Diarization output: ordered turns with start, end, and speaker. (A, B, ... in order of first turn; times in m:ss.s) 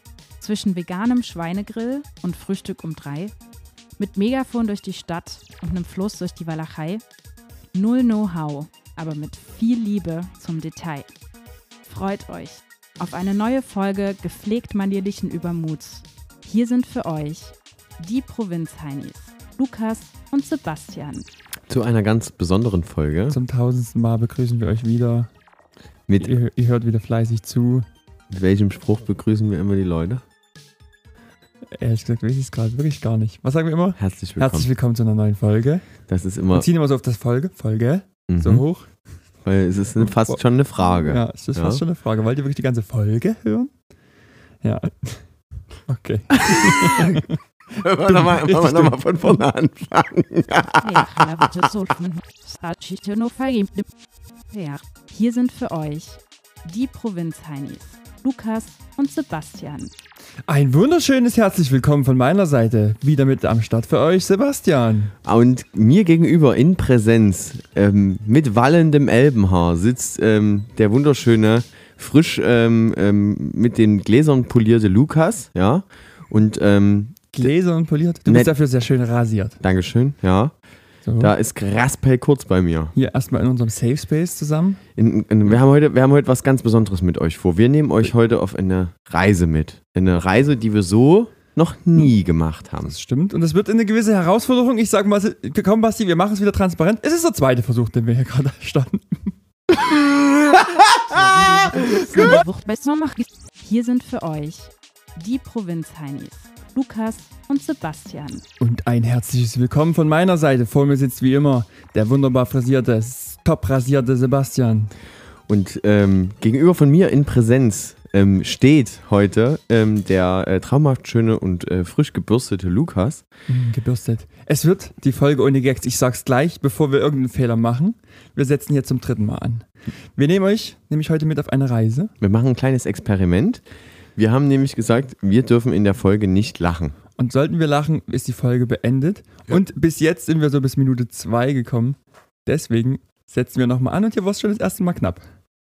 0:00.4-0:03.3 A
0:04.0-0:07.0 A
0:07.7-0:11.1 A
0:11.9-0:21.3 A
0:21.7-0:23.4 B
0:23.3-0:25.3 C
0:26.1-0:26.3 B
0:26.2-0:27.8 C
0:28.3-0:30.2 B
0:31.8-0:35.8 C
0:34.0-0:34.7 B
0:36.1-0:36.7 B
0:36.5-0:38.9 C
0:38.3-0:38.6 B
0:39.4-0:41.8 B
0:41.1-0:43.7 C
0:44.6-0:45.2 C
0:45.9-0:49.3 C
0:46.3-0:51.7 B
0:50.8-0:53.9 A
0:54.5-0:59.9 A
1:00.5-1:05.1 C
1:05.2-1:17.5 B
1:17.3-1:19.6 C
1:18.3-1:18.5 B
1:19.6-1:20.5 B
1:21.0-1:21.3 C
1:21.2-1:22.9 B
1:23.0-1:24.8 C
1:25.0-1:33.0 B
1:32.8-1:39.3 C
1:40.9-1:48.4 A
1:48.6-1:54.9 C
1:55.5-2:03.3 B
2:03.5-2:12.1 C
2:12.2-2:13.6 B
2:14.2-2:17.0 B
2:17.2-2:25.2 C